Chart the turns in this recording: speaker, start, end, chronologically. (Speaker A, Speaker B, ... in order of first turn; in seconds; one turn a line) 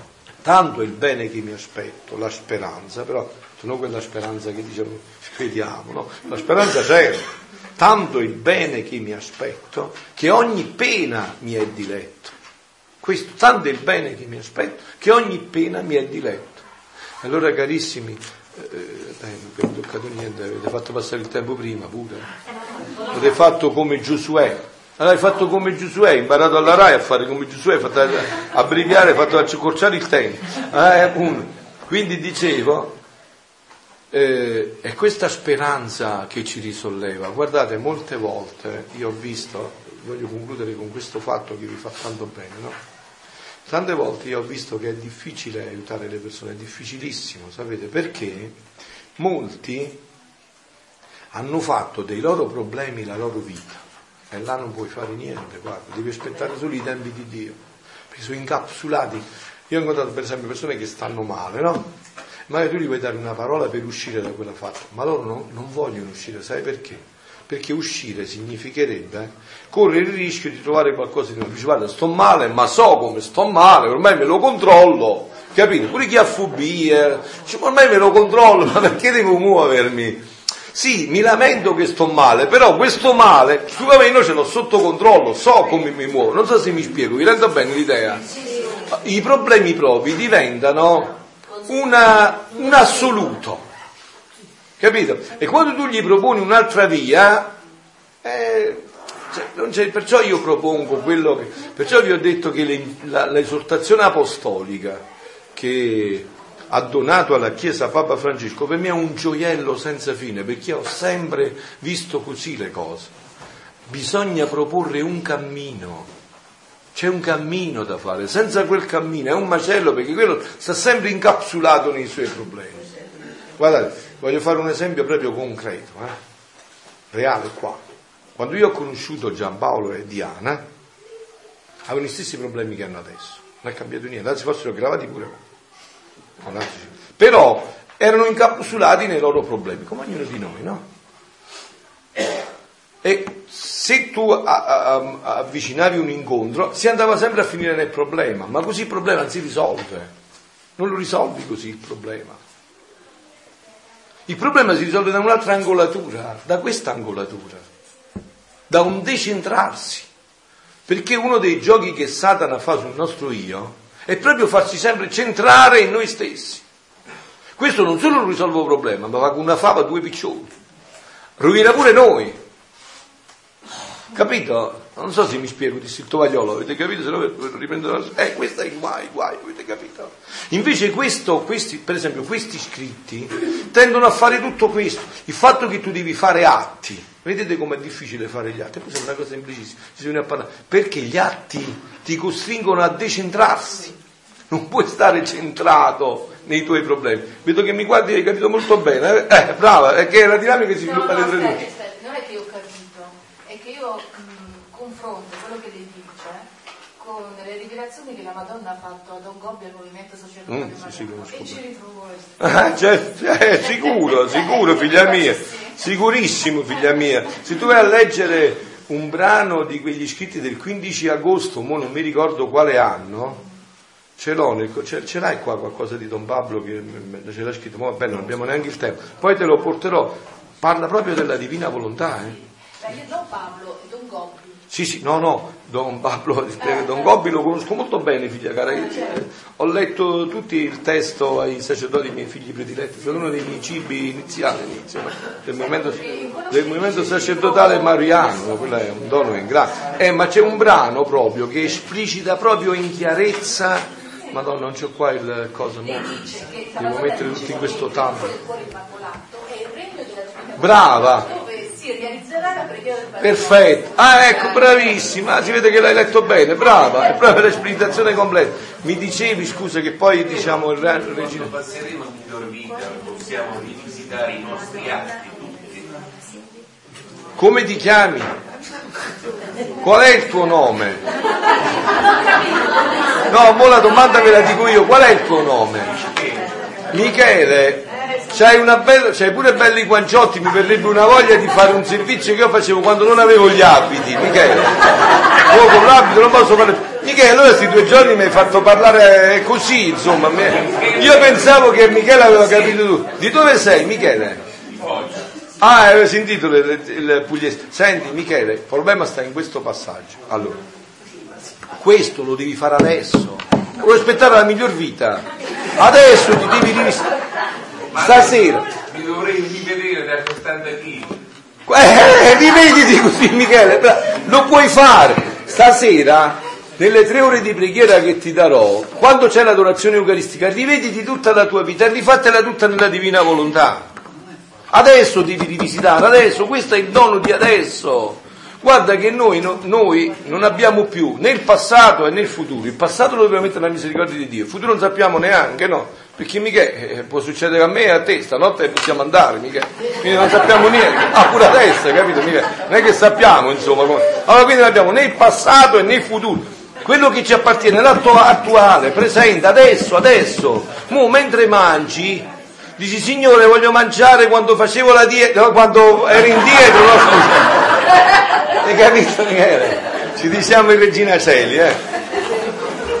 Speaker A: 0.4-12.3
Speaker A: 13.0-16.6
Speaker A: 17.2-22.3
Speaker A: 23.1-32.9
Speaker A: 34.1-42.8
Speaker A: 43.6-48.5
Speaker A: 49.2-50.0
Speaker A: 51.3-57.6
Speaker A: 58.1-61.9
Speaker A: 62.5-80.2
Speaker A: 80.7-88.3
Speaker A: 88.9-93.6
Speaker A: 94.8-97.5
Speaker A: 98.2-105.0
Speaker A: 105.5-113.1
Speaker A: 113.9-116.1
Speaker A: 116.9-122.8
Speaker A: 123.6-126.2
Speaker A: 127.1-127.8
Speaker A: 128.3-130.6
Speaker A: 131.8-135.4
Speaker A: 136.4-140.8
Speaker A: 143.0-150.1
Speaker A: 150.8-152.4
Speaker A: 154.3-157.6
Speaker A: 158.7-160.1
Speaker A: 160.9-166.6
Speaker A: 167.6-170.5
Speaker A: 171.4-172.4
Speaker A: 174.1-193.9
Speaker A: 194.5-201.7
Speaker B: 200.8-212.6
Speaker A: 210.5-211.6
Speaker A: 212.4-223.4
Speaker A: 224.2-232.4
Speaker B: 232.8-234.5
Speaker A: 234.7-258.4
Speaker B: 246.1-247.1
Speaker B: 256.2-263.8
Speaker A: 260.6-261.3
Speaker A: 263.2-271.5
Speaker C: 271.1-276.1
Speaker A: 277.4-278.4
Speaker A: 279.8-281.0
Speaker A: 283.3-286.0
Speaker C: 286.0-286.4
Speaker A: 286.9-304.4
Speaker C: 300.4-301.6
Speaker C: 304.8-305.3
Speaker A: 305.6-310.6
Speaker A: 311.7-317.1
Speaker C: 317.9-321.2
Speaker A: 317.9-318.7
Speaker A: 321.6-333.8
Speaker A: 334.7-367.7
Speaker A: 368.6-371.8